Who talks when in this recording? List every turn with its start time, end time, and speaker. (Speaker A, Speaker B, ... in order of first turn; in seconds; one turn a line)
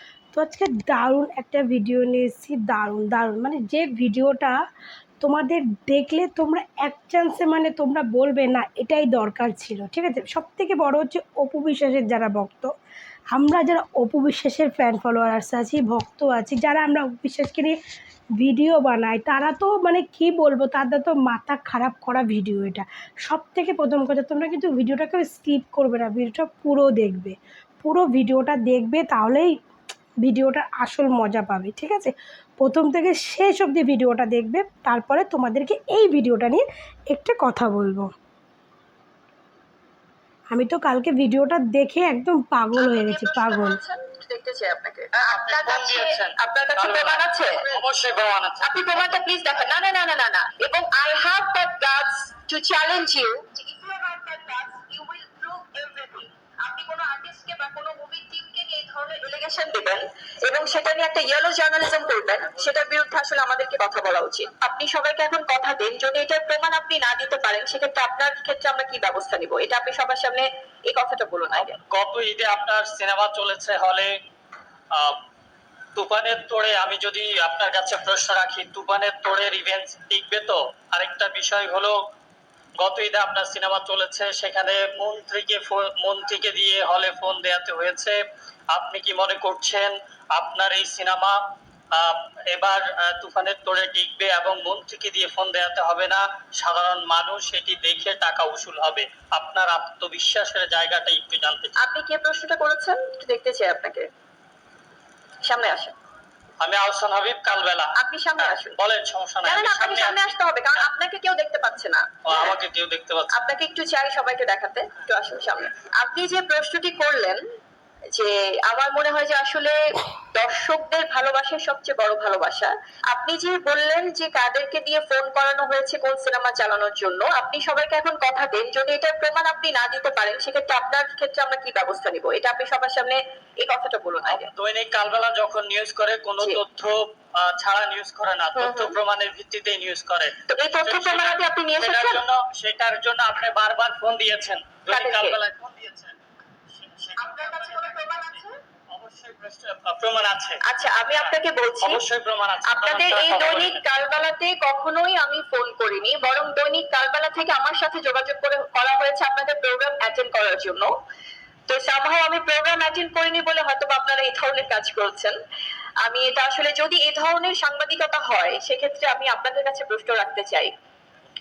Speaker A: 0.3-4.5
Speaker A: 5.2-12.7
Speaker A: 13.3-17.8
Speaker A: 18.4-29.5
Speaker A: 30.2-38.1
Speaker A: 40.5-43.8
Speaker B: 42.8-47.6
Speaker C: 45.1-49.1
Speaker B: 48.6-71.8
Speaker C: 71.5-74.1
Speaker C: 76.0-82.0
Speaker C: 82.8-88.2
Speaker C: 88.7-91.4
Speaker C: 91.9-101.8
Speaker B: 101.8-104.1
Speaker B: 105.4-105.9
Speaker C: 106.6-110.9
Speaker B: 108.0-108.8
Speaker B: 109.4-112.1
Speaker C: 112.2-113.3
Speaker B: 113.3-117.4
Speaker B: 118.1-134.5
Speaker C: 134.2-146.2
Speaker B: 138.5-138.9
Speaker B: 140.5-142.2
Speaker B: 144.9-145.4
Speaker C: 146.7-148.1
Speaker B: 147.2-148.6
Speaker C: 148.9-153.8
Speaker B: 150.7-152.0
Speaker B: 152.6-160.9
Speaker B: 161.7-165.3
Speaker B: 166.0-170.7